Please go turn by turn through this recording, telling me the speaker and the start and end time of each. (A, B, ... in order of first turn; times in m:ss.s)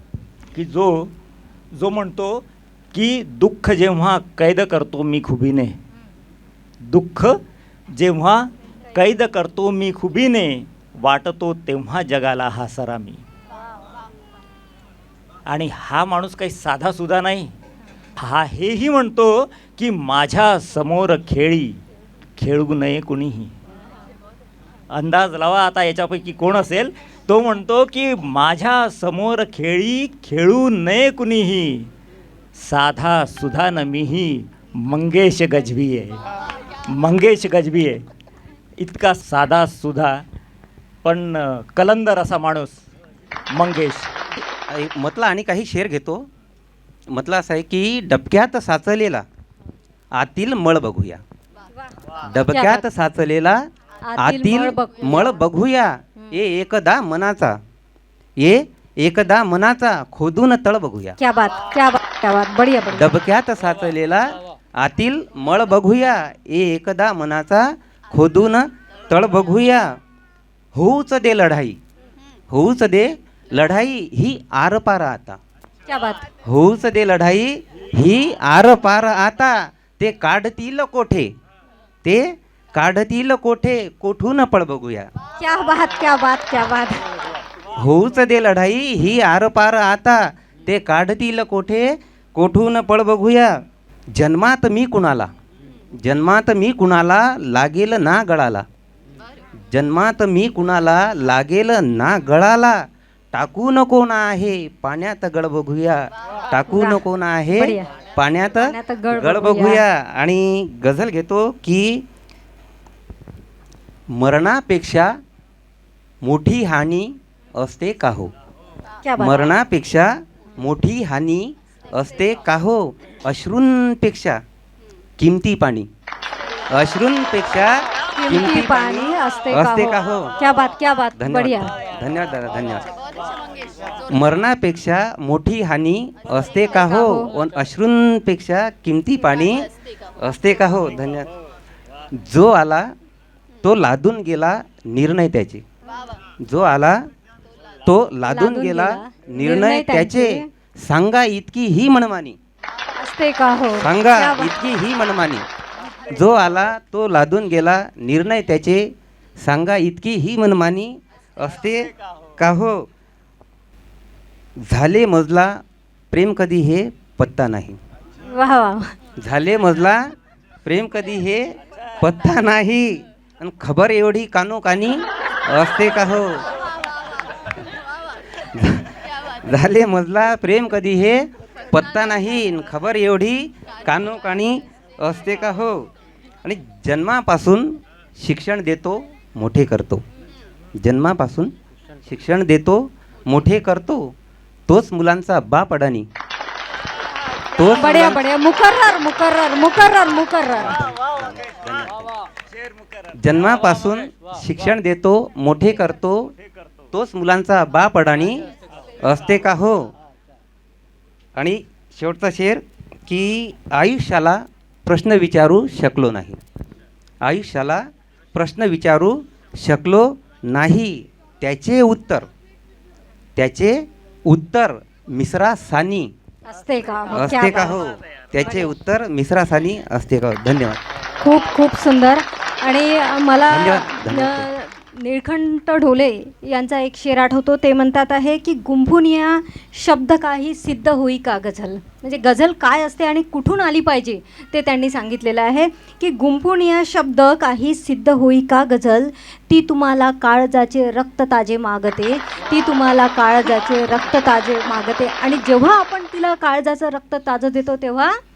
0:00.5-0:01.1 A
0:01.7-0:05.8 A
0:06.9-0:07.4 A
0:07.9-0:13.2 A
0:15.5-0:17.5 A
0:18.2-0:21.8 A
0:22.4-0:23.5 A
0:24.9-0:31.9 A
0:32.6-0:36.2 A
0:36.9-0:38.0 A
0:38.8-0:40.2 A
0:41.0-0:42.9 A
0:43.5-0:44.1 A
0:44.7-0:46.3 B
0:47.1-0:49.2 B
0:50.1-0:51.2 B
0:52.3-0:53.6 B
0:52.5-0:52.8 C
0:54.1-0:55.2 C
0:54.2-0:57.6 B
0:58.4-1:01.2 B
1:01.2-1:03.1 C
1:02.9-1:09.9 B
1:10.7-1:11.8 B
1:12.5-1:15.4 B
1:15.9-1:16.2 C
1:16.4-1:21.3 B
1:22.0-1:25.0 B
1:25.4-1:27.0 C
1:27.8-1:33.5 B
1:34.2-1:35.3 B
1:36.0-1:38.6 B
1:39.7-1:42.8 B
1:43.3-1:52.0 B
1:46.7-1:47.0 C
1:47.6-1:47.9 C
1:48.6-1:49.8 C
1:54.2-1:55.1 B
1:56.2-1:58.3 B
1:59.0-1:59.4 C
1:59.2-2:04.4 B
2:05.2-2:05.9 B
2:06.7-2:07.8 B
2:08.2-2:11.7 C
2:08.3-2:10.3 B
2:11.2-2:12.8 B
2:14.1-2:19.7 B
2:16.9-2:17.3 C
2:20.2-2:21.3 B
2:22.2-2:22.9 B
2:23.6-2:25.6 B
2:26.4-2:27.0 B
2:27.8-2:32.4 B
2:28.3-2:30.5 C
2:33.0-2:34.6 C
2:33.8-2:35.4 B
2:36.1-2:38.8 B
2:39.4-2:42.9 B
2:44.7-2:45.5 B
2:46.1-2:47.8 B
2:48.3-2:48.9 C
2:49.2-2:50.0 B
2:50.6-2:51.5 B
2:52.0-2:56.4 B
2:58.5-2:58.9 B
2:59.4-3:05.9 B
3:06.4-3:10.0 B
3:10.8-3:11.5 B
3:12.0-3:14.1 B
3:14.7-3:16.0 B
3:17.6-3:18.2 B
3:17.7-3:20.8 C
3:20.7-3:22.1 B
3:23.2-3:26.3 B
3:26.9-3:28.4 B
3:29.0-3:29.8 B
3:31.4-3:36.4 B
3:37.2-3:37.8 B
3:38.3-3:42.3 B
3:43.4-3:46.1 B
3:46.5-3:47.8 C
3:47.1-3:50.8 B
3:48.4-3:48.7 C
3:51.2-4:18.1 C
3:53.5-3:54.5 B